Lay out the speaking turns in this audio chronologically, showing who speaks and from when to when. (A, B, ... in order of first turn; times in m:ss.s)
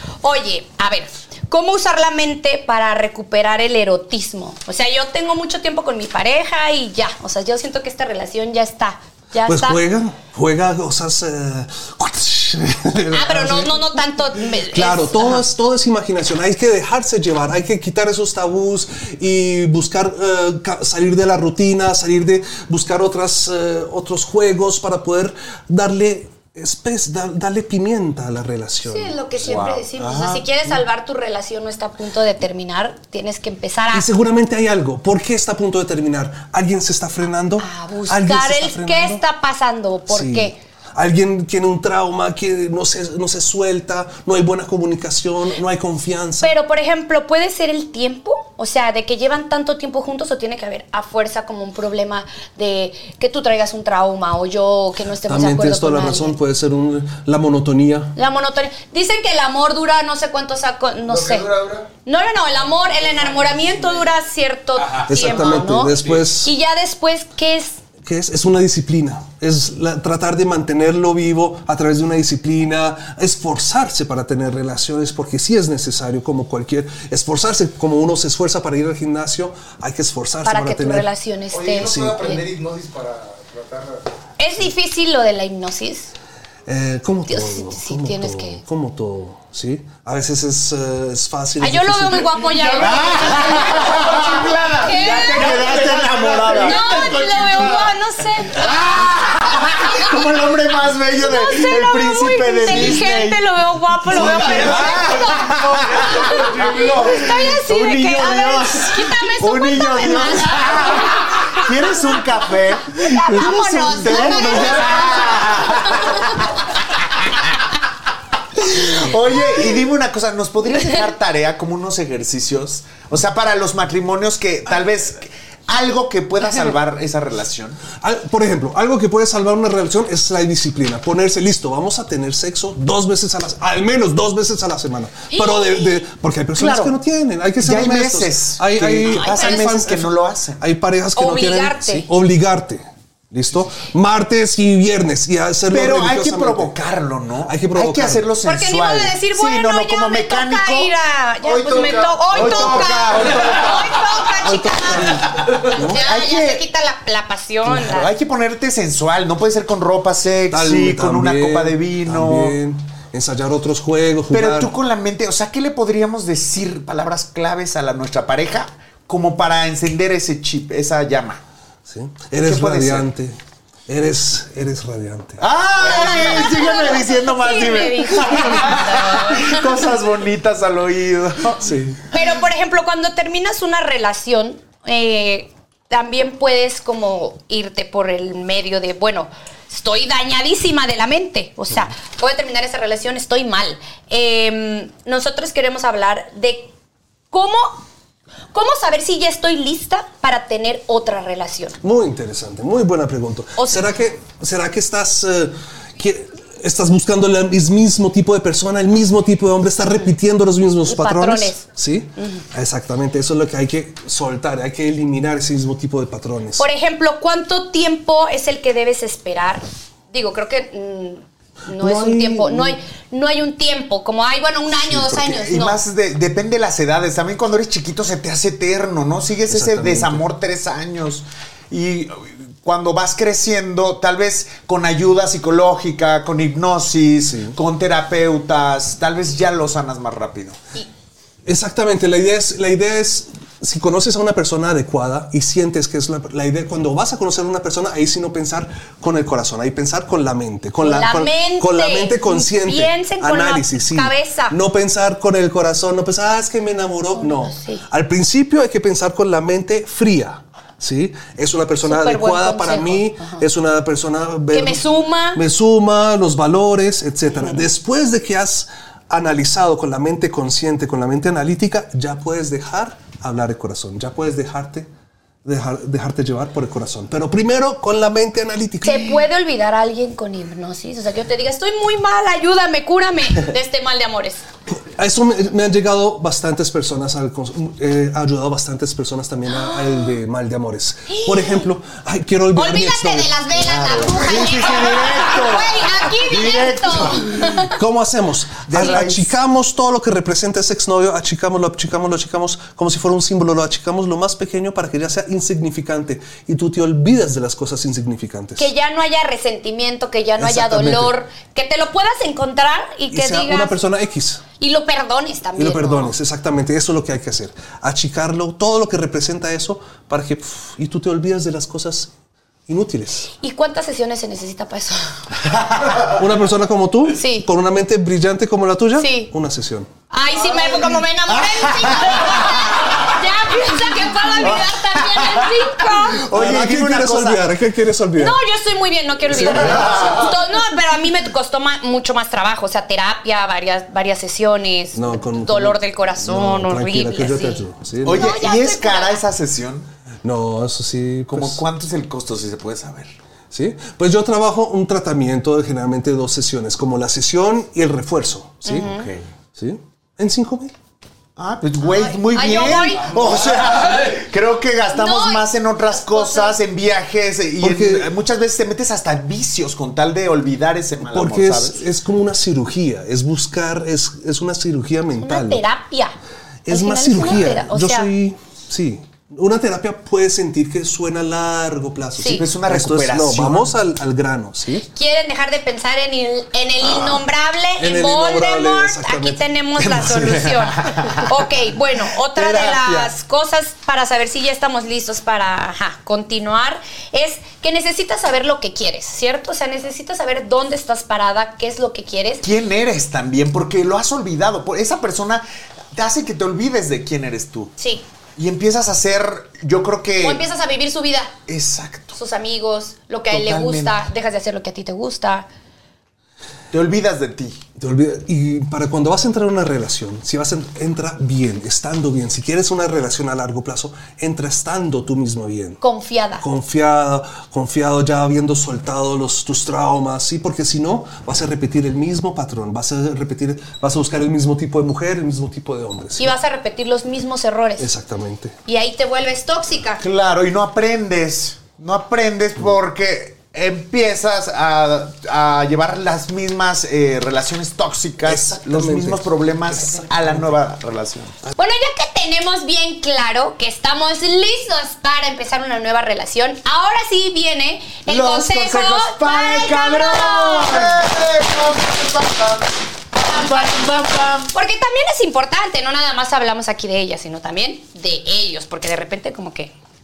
0:00.2-0:09.8 A
0:09.4-0:14.0 B
0:13.1-0:15.4 A
0:14.6-0:29.6 B
0:28.8-0:34.1 A
0:29.4-0:30.5 C
0:33.9-0:39.2 B
0:37.6-0:40.6 A
0:40.1-0:46.5 B
0:46.4-0:56.4 A
0:55.2-0:58.1 B
0:58.2-1:01.5 A
1:01.1-1:01.9 D
1:02.0-1:07.8 A
1:02.9-1:04.0 D
1:05.0-1:06.5 B
1:05.3-1:05.6 D
1:08.0-1:21.1 B
1:20.4-1:22.4 A
1:21.5-1:24.0 D
1:21.8-1:22.3 B
1:24.4-1:26.1 A
1:26.6-1:32.4 B
1:27.3-1:28.6 A
1:31.6-1:35.7 A
1:32.6-1:37.9 C
1:32.8-1:37.9 D
1:36.5-1:38.8 A
1:38.5-1:43.4 C
1:39.5-1:40.2 A
1:41.1-1:52.2 A
1:44.0-1:56.5 C
1:44.1-1:47.3 D
1:53.0-1:56.6 A
1:54.3-1:55.2 D
1:58.6-2:07.8 C
2:08.0-2:26.7 B
2:15.3-2:16.0 A
2:16.6-2:16.9 C
2:17.6-2:20.6 C
2:19.0-2:19.7 A
2:21.2-2:22.1 A
2:25.7-2:30.9 C
2:27.4-2:28.3 B
2:28.4-2:38.1 A
2:31.4-2:34.2 D
2:32.3-2:33.8 C
2:34.4-2:36.0 B
2:35.8-2:36.6 C
2:37.7-2:42.6 C
2:40.5-2:44.7 B
2:44.3-2:51.4 C
2:51.8-2:55.4 B
2:52.4-2:53.1 C
2:55.4-3:01.6 C
2:55.8-2:59.6 A
3:01.6-3:02.0 B
3:02.1-3:16.7 A
3:17.3-3:17.8 A
3:18.5-3:21.8 A
3:21.8-3:36.6 B
3:23.6-3:23.9 A
3:30.8-3:31.6 A
3:32.2-3:32.4 A
3:36.6-3:45.8 A
3:41.7-3:42.8 B
3:44.8-4:00.6 C
3:49.5-3:50.2 B
3:57.2-3:57.6 B
4:01.4-4:24.8 B
4:10.8-4:14.6 A
4:17.1-4:17.8 A
4:21.8-4:23.4 A
4:24.5-4:25.4 A
4:25.3-4:34.9 B
4:35.4-4:39.2 B
4:38.8-4:44.4 A
4:44.7-4:54.9 B
4:49.5-4:50.1 A
4:51.1-4:51.7 A
4:52.5-4:57.8 A
4:53.7-4:57.5 C
4:57.4-5:08.7 B
4:58.7-4:59.3 C
5:08.6-5:13.8 A
5:10.4-5:11.2 B
5:13.1-5:14.4 B
5:14.6-5:16.1 A
5:15.6-5:22.1 B
5:22.7-5:23.3 B
5:23.4-5:25.2 A
5:26.0-5:29.9 B
5:27.1-5:27.5 A
5:29.0-5:29.3 A
5:30.1-5:36.2 A
5:31.3-5:33.0 C
5:34.4-5:37.4 C
5:36.3-5:38.4 B
5:38.2-5:49.2 A
5:39.3-5:40.1 B
5:44.9-5:48.5 B
5:48.0-5:49.9 C
5:50.2-5:51.6 B
5:51.3-5:53.1 C
5:53.5-5:58.9 B
5:58.7-5:59.1 A
5:58.7-5:59.3 C
5:59.5-6:00.7 B
6:01.4-6:11.8 C
6:01.8-6:03.4 A
6:04.9-6:06.6 A
6:07.6-6:08.1 B
6:11.0-6:15.6 B
6:15.2-6:16.1 A
6:16.6-6:24.9 B
6:16.7-6:18.1 A
6:22.2-6:22.4 A
6:22.2-6:23.8 C
6:24.9-6:42.4 A
6:27.8-6:29.5 B
6:29.8-6:31.3 C
6:32.4-6:33.1 C
6:42.4-6:47.7 C
6:47.8-6:48.0 A
6:48.4-6:50.4 C
6:50.2-6:51.3 A
6:51.5-6:52.2 C
6:52.1-6:55.5 A
6:53.3-6:54.0 C
6:56.7-6:57.6 C
6:57.8-7:05.8 B
7:05.8-7:06.4 A
7:06.4-7:16.3 B
7:16.2-7:17.9 A
7:17.8-7:18.5 B
7:18.6-7:20.0 A
7:20.0-7:31.4 C
7:28.2-7:30.6 B
7:31.6-7:41.0 A
7:38.0-7:42.6 C
7:43.1-7:44.5 C
7:43.3-7:43.6 A
7:44.5-7:49.7 A